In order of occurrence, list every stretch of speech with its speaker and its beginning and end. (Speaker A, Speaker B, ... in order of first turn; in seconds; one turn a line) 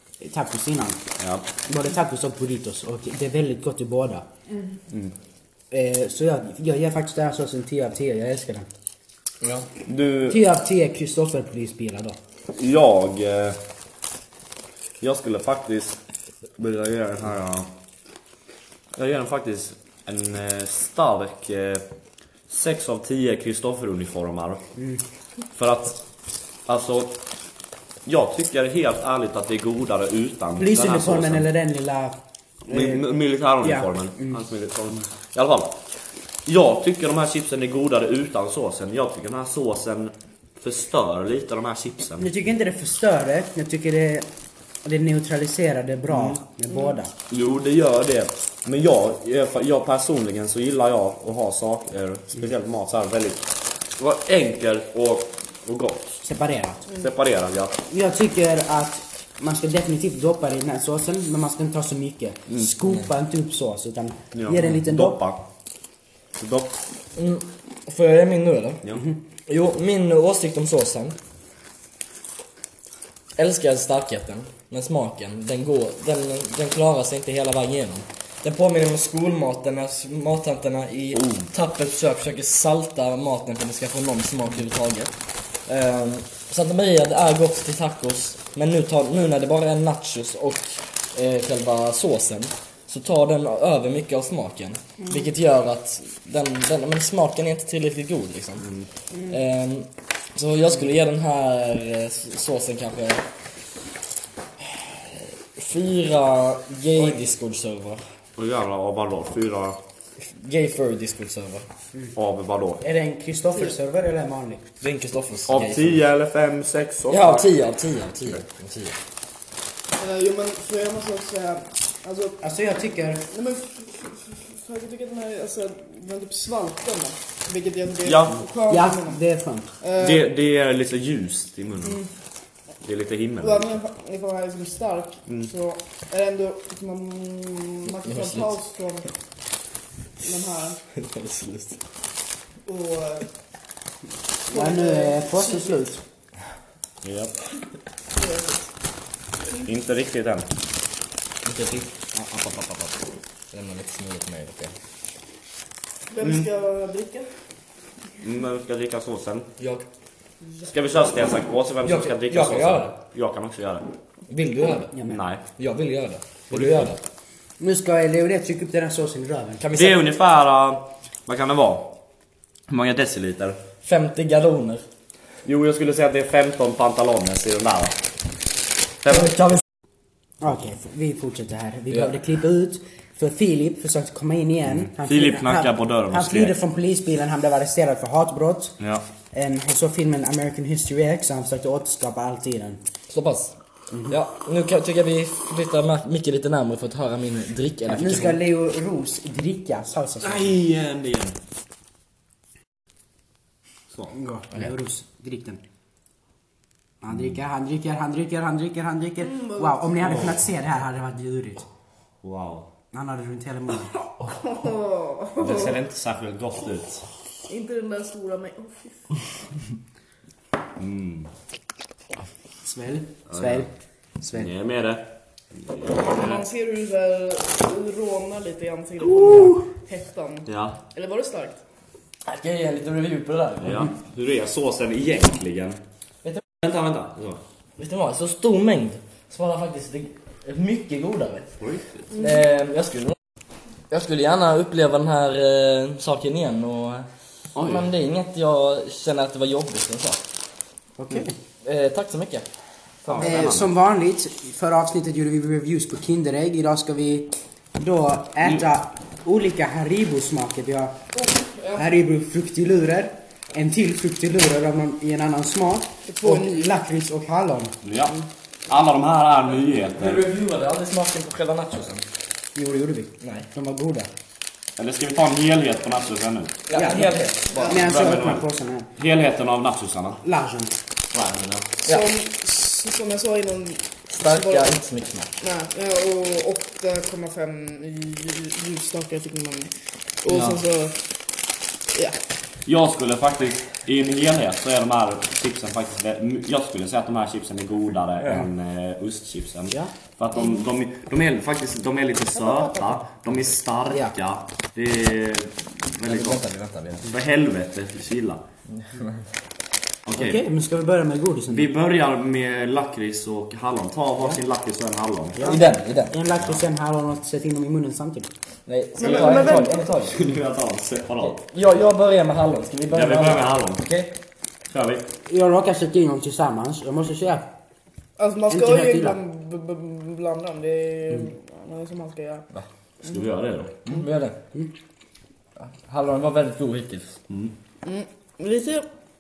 Speaker A: 0.2-1.0
Speaker B: 1.2-1.5
Speaker A: 1.7-4.3
Speaker A: 5.7-8.7
Speaker C: 9.4-9.7
Speaker B: 9.9-10.4
Speaker A: 10.3-12.2
Speaker B: 12.5-13.6
Speaker B: 15.0-16.0
Speaker B: 16.6-17.7
Speaker B: 19.0-21.8
Speaker B: 22.5-24.6
Speaker A: 24.8-25.0
Speaker B: 25.6-26.0
Speaker B: 26.7-27.1
Speaker B: 28.1-31.4
Speaker A: 30.6-33.0
Speaker B: 32.7-35.8
Speaker A: 33.6-34.4
Speaker B: 36.5-42.3
Speaker A: 42.2-44.3
Speaker A: 44.8-47.1
Speaker B: 46.1-46.4
Speaker B: 47.3-56.2
Speaker A: 56.2-56.8
Speaker B: 56.9-57.8
Speaker A: 57.9-65.2
Speaker B: 64.3-65.4
Speaker B: 66.4-66.8
Speaker C: 67.2-68.8
Speaker C: 69.5-71.2
Speaker C: 73.4-85.1
Speaker B: 81.1-81.5
Speaker C: 85.7-98.7
Speaker B: 98.6-98.9
Speaker C: 99.3-103.2
Speaker C: 104.6-108.0
Speaker B: 108.4-109.8
Speaker C: 110.2-111.7
Speaker B: 112.2-112.8
Speaker A: 112.8-114.6
Speaker C: 114.8-116.0
Speaker B: 115.5-117.5
Speaker C: 117.1-119.0
Speaker D: 120.0-122.4
Speaker A: 122.4-123.3
Speaker D: 123.3-129.2
Speaker B: 128.0-128.4
Speaker A: 128.7-129.7
Speaker D: 129.8-130.2
Speaker B: 130.0-132.0
Speaker B: 132.8-133.8
Speaker D: 133.4-139.1
Speaker C: 138.1-138.5
Speaker D: 140.2-140.8
Speaker C: 140.9-141.8
Speaker D: 142.7-143.3
Speaker D: 144.5-145.8
Speaker A: 144.5-146.0
Speaker B: 147.0-147.4
Speaker D: 148.1-148.7
Speaker B: 149.5-150.5
Speaker C: 151.4-153.0
Speaker C: 153.5-154.7
Speaker D: 156.1-157.3
Speaker B: 156.2-156.5
Speaker B: 158.2-159.5
Speaker C: 159.6-159.8
Speaker B: 160.7-163.8
Speaker C: 161.8-162.9
Speaker C: 164.3-164.9
Speaker A: 164.9-165.2
Speaker B: 165.1-165.4
Speaker C: 165.6-167.0
Speaker B: 166.5-166.9
Speaker A: 167.6-169.6
Speaker C: 169.6-170.0
Speaker B: 169.7-171.9
Speaker B: 172.7-173.6
Speaker C: 173.8-174.8
Speaker B: 175.4-178.0
Speaker B: 179.0-179.5
Speaker C: 179.1-179.6
Speaker A: 180.4-188.8
Speaker B: 184.9-186.6
Speaker A: 189.3-192.8
Speaker C: 193.1-193.6
Speaker C: 194.1-198.4
Speaker A: 197.9-200.6
Speaker B: 200.2-201.4
Speaker A: 204.1-205.6
Speaker A: 207.0-211.6
Speaker D: 209.2-209.9
Speaker B: 210.0-210.4
Speaker B: 212.2-212.7
Speaker A: 212.9-214.0
Speaker D: 214.2-215.8
Speaker B: 215.4-217.1
Speaker D: 217.5-219.3
Speaker B: 220.8-221.3
Speaker A: 222.6-223.7
Speaker B: 223.3-223.7
Speaker A: 224.2-224.5
Speaker B: 224.3-225.1
Speaker B: 225.6-226.4
Speaker D: 226.0-231.6
Speaker B: 229.2-229.5
Speaker B: 230.5-230.8
Speaker C: 232.2-233.9
Speaker B: 233.6-235.8
Speaker B: 236.6-237.4
Speaker C: 237.8-241.5
Speaker B: 241.6-242.1
Speaker C: 242.2-243.2
Speaker C: 243.9-247.1
Speaker B: 247.6-247.9
Speaker C: 247.6-250.2
Speaker A: 251.0-251.3
Speaker C: 251.6-252.4
Speaker C: 253.1-253.5
Speaker B: 253.1-253.7
Speaker A: 253.2-261.0
Speaker D: 261.1-261.9
Speaker A: 261.7-267.8
Speaker D: 266.1-266.6
Speaker B: 267.8-268.2
Speaker B: 268.7-270.2
Speaker C: 270.0-272.1
Speaker A: 272.6-274.1
Speaker C: 273.2-273.5
Speaker B: 274.8-276.6
Speaker C: 276.7-277.8
Speaker A: 276.7-278.9
Speaker D: 277.5-277.8
Speaker B: 277.6-278.4
Speaker B: 279.0-280.2
Speaker A: 280.2-280.8
Speaker B: 281.1-281.7
Speaker D: 281.8-284.8
Speaker C: 284.1-285.3
Speaker D: 285.4-291.0
Speaker C: 290.3-290.6
Speaker D: 291.9-292.2
Speaker B: 292.7-306.4
Speaker C: 298.2-298.5
Speaker D: 302.4-303.0
Speaker C: 306.1-307.1
Speaker B: 307.0-308.4
Speaker C: 308.8-309.2
Speaker B: 310.1-310.4
Speaker A: 310.1-311.7
Speaker B: 311.5-315.4
Speaker A: 315.4-318.3
Speaker C: 315.4-316.1
Speaker C: 318.7-320.2
Speaker D: 319.0-319.9
Speaker B: 319.0-321.4
Speaker C: 321.2-324.1
Speaker B: 322.9-323.9
Speaker B: 324.7-325.1
Speaker A: 325.3-327.5
Speaker D: 328.2-332.5
Speaker A: 328.5-329.2
Speaker B: 333.0-333.8
Speaker C: 333.9-334.4
Speaker C: 335.6-337.2
Speaker D: 337.8-338.9